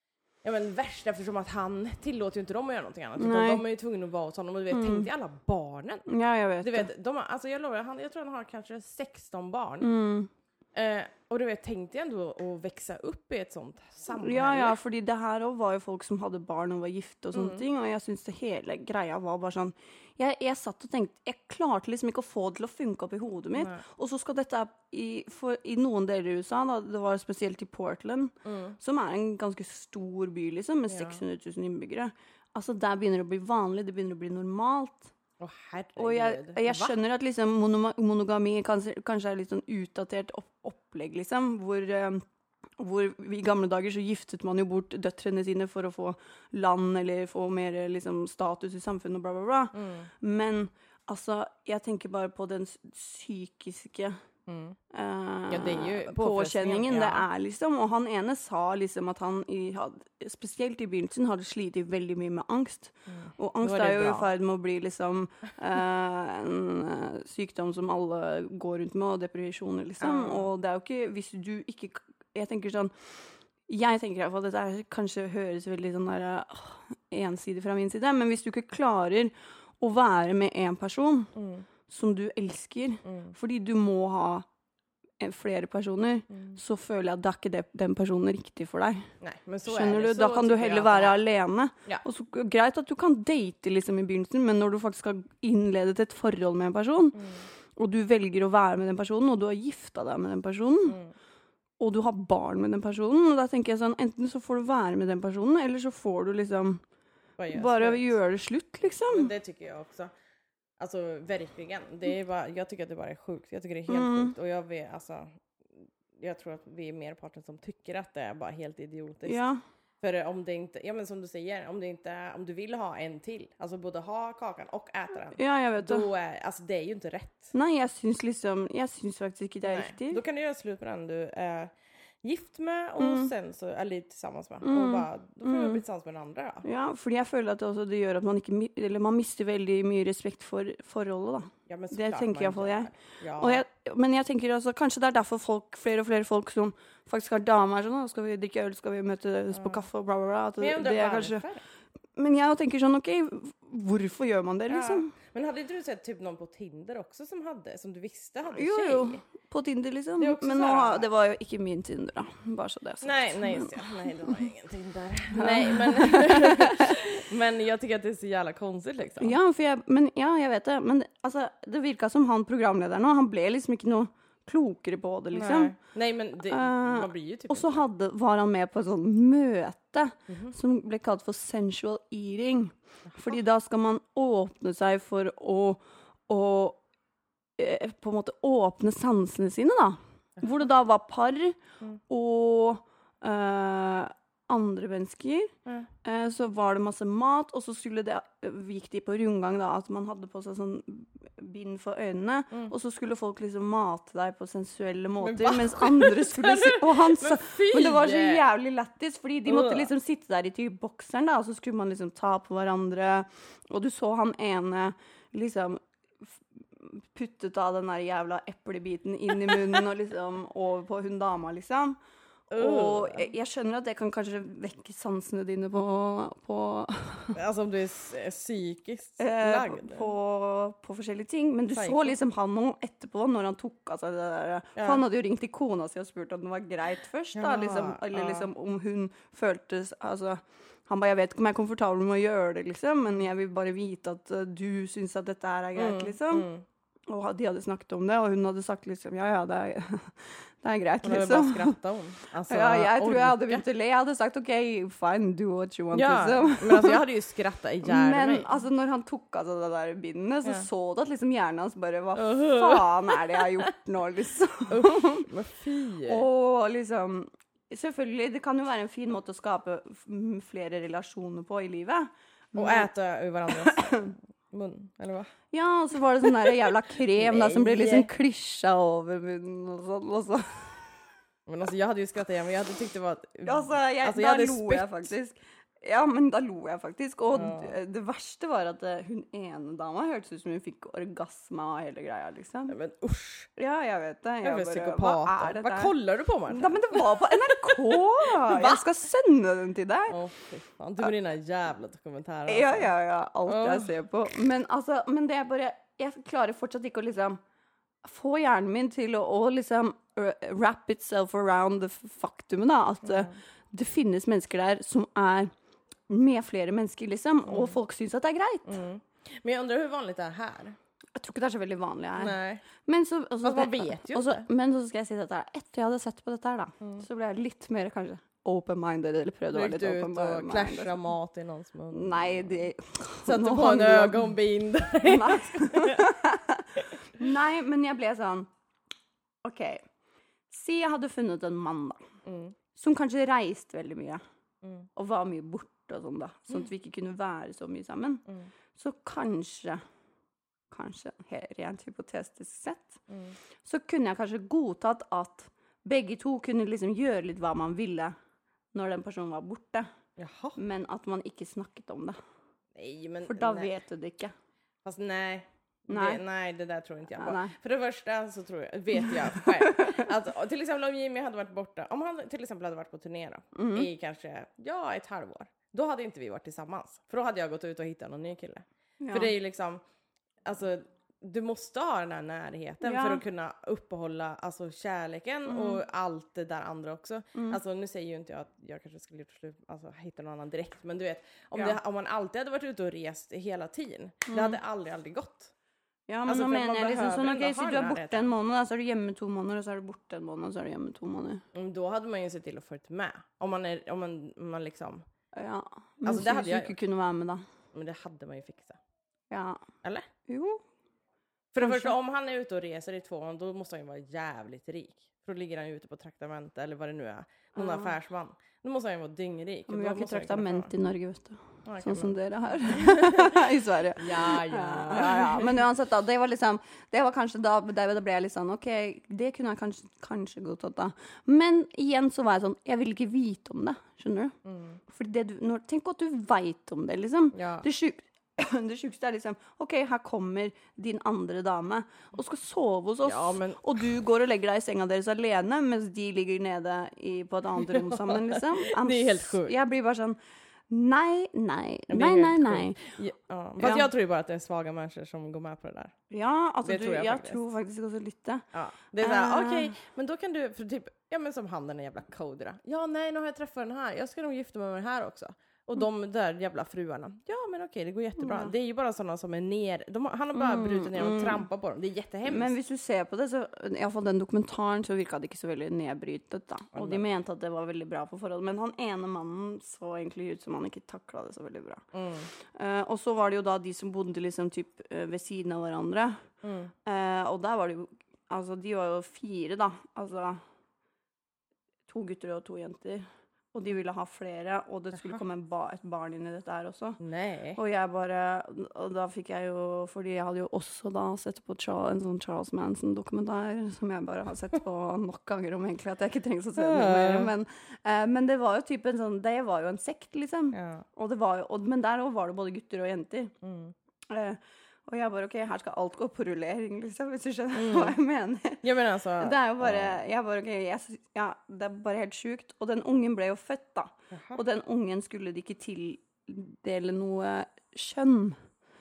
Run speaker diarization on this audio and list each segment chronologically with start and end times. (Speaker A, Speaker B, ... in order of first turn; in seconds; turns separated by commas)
Speaker A: 0.4-6.1, Speaker B: 3.2-3.6, Speaker B: 4.7-5.1, Speaker B: 6.1-6.9, Speaker A: 6.6-9.9, Speaker B: 9.8-10.3, Speaker A: 10.8-14.8, Speaker B: 14.1-35.1, Speaker A: 17.4-17.6, Speaker A: 23.6-23.8, Speaker A: 28.4-28.8, Speaker A: 30.9-31.2, Speaker A: 35.4-37.0, Speaker B: 36.0-42.2, Speaker B: 42.8-54.2, Speaker A: 49.7-50.1, Speaker A: 54.5-54.8, Speaker B: 54.9-72.9, Speaker A: 55.5-57.3, Speaker A: 63.1-64.3, Speaker A: 70.0-70.5, Speaker B: 73.7-81.3, Speaker A: 81.3-81.7, Speaker B: 81.9-84.5, Speaker A: 83.0-83.3, Speaker B: 85.2-89.1, Speaker A: 86.3-86.6, Speaker A: 89.2-91.2, Speaker B: 89.7-97.2, Speaker A: 97.2-97.5, Speaker B: 97.8-101.0, Speaker A: 100.9-101.1, Speaker B: 101.8-106.8, Speaker A: 107.4-108.2, Speaker B: 107.5-109.3, Speaker A: 109.1-110.1, Speaker A: 110.8-119.4, Speaker B: 113.9-114.3, Speaker B: 119.2-119.6, Speaker A: 120.0-127.5, Speaker B: 125.3-126.1, Speaker B: 127.5-130.2, Speaker A: 129.7-136.7, Speaker B: 133.0-133.3, Speaker B: 134.6-135.8, Speaker B: 136.6-151.4, Speaker A: 141.7-143.6, Speaker A: 149.5-149.8, Speaker A: 150.6-151.6, Speaker B: 152.2-155.1, Speaker A: 154.7-159.2, Speaker B: 158.5-163.9, Speaker A: 160.2-161.1, Speaker A: 163.0-169.4, Speaker B: 165.3-167.0, Speaker B: 169.2-175.8, Speaker A: 175.3-177.8, Speaker B: 176.4-186.8, Speaker A: 180.3-180.6, Speaker B: 187.6-191.6, Speaker B: 192.1-195.5, Speaker B: 196.0-222.0, Speaker A: 205.2-208.4, Speaker A: 209.5-209.9, Speaker A: 222.5-223.3, Speaker B: 222.6-227.4, Speaker A: 227.3-230.1, Speaker B: 229.2-246.5, Speaker A: 231.8-232.1, Speaker A: 234.8-235.0, Speaker A: 237.3-238.5, Speaker A: 245.8-246.6, Speaker B: 247.1-251.8, Speaker A: 251.0-253.6, Speaker B: 252.5-257.1, Speaker A: 255.9-258.5, Speaker B: 257.8-265.3, Speaker A: 262.2-263.7, Speaker A: 264.7-266.2, Speaker B: 266.1-272.9, Speaker A: 272.6-275.3, Speaker B: 273.5-274.1, Speaker B: 275.5-280.8, Speaker A: 277.1-278.1, Speaker A: 281.5-285.1, Speaker B: 283.4-292.8, Speaker A: 287.3-287.8, Speaker A: 292.7-293.5, Speaker B: 293.6-295.9, Speaker A: 294.4-298.8, Speaker B: 296.5-300.2, Speaker A: 300.1-302.9, Speaker B: 302.5-307.4, Speaker A: 303.5-303.9, Speaker B: 308.0-315.5, Speaker A: 313.0-313.4, Speaker B: 316.1-318.8, Speaker A: 317.5-317.7, Speaker A: 318.7-320.8, Speaker B: 321.1-330.9, Speaker A: 322.2-322.7, Speaker A: 323.4-324.5, Speaker A: 329.5-332.7, Speaker B: 331.9-334.4, Speaker A: 333.2-336.2, Speaker B: 335.0-338.5, Speaker B: 339.4-339.9, Speaker B: 340.5-342.0, Speaker A: 342.3-342.6, Speaker B: 342.7-344.2, Speaker A: 344.6-344.9, Speaker B: 345.0-348.2, Speaker B: 348.8-349.8, Speaker B: 350.7-353.0, Speaker A: 353.1-353.4, Speaker B: 353.6-358.1, Speaker B: 358.7-359.9, Speaker A: 360.2-360.6, Speaker B: 360.6-362.2, Speaker A: 362.8-363.8, Speaker B: 363.2-364.3, Speaker A: 364.9-379.8, Speaker B: 365.9-366.2, Speaker B: 367.2-367.5, Speaker B: 369.3-370.0, Speaker B: 373.6-373.9, Speaker B: 379.0-379.3, Speaker A: 380.4-395.5, Speaker B: 382.8-383.2, Speaker B: 385.5-385.8, Speaker B: 394.3-394.6, Speaker B: 396.1-401.4, Speaker A: 396.3-398.3, Speaker A: 401.5-405.1, Speaker B: 405.3-407.4, Speaker A: 406.0-406.8, Speaker A: 407.7-408.8, Speaker B: 409.3-409.6, Speaker B: 410.3-410.6, Speaker A: 411.5-420.7, Speaker B: 411.6-411.9, Speaker B: 417.6-417.9, Speaker B: 419.7-434.3, Speaker A: 421.6-422.1, Speaker A: 422.7-423.4, Speaker A: 424.0-425.5, Speaker A: 434.4-434.8, Speaker B: 434.9-450.2, Speaker A: 437.3-437.7, Speaker A: 443.1-443.6, Speaker A: 447.8-449.5, Speaker B: 450.7-452.8, Speaker A: 451.9-455.9, Speaker B: 453.6-453.9, Speaker B: 456.1-458.4, Speaker A: 456.6-457.4, Speaker A: 458.5-472.5, Speaker B: 459.0-459.8, Speaker B: 468.2-468.5, Speaker B: 470.3-471.4, Speaker B: 472.3-481.8, Speaker A: 476.7-477.0, Speaker A: 481.9-482.3, Speaker B: 482.5-486.1, Speaker A: 486.4-486.7, Speaker B: 486.9-490.4, Speaker B: 491.9-497.0, Speaker A: 497.0-497.6, Speaker B: 497.6-513.3, Speaker A: 506.6-507.3, Speaker A: 510.5-510.9, Speaker A: 513.4-513.7, Speaker B: 514.1-518.6, Speaker A: 517.5-518.0, Speaker A: 518.6-520.0, Speaker B: 519.2-528.4, Speaker A: 524.1-524.4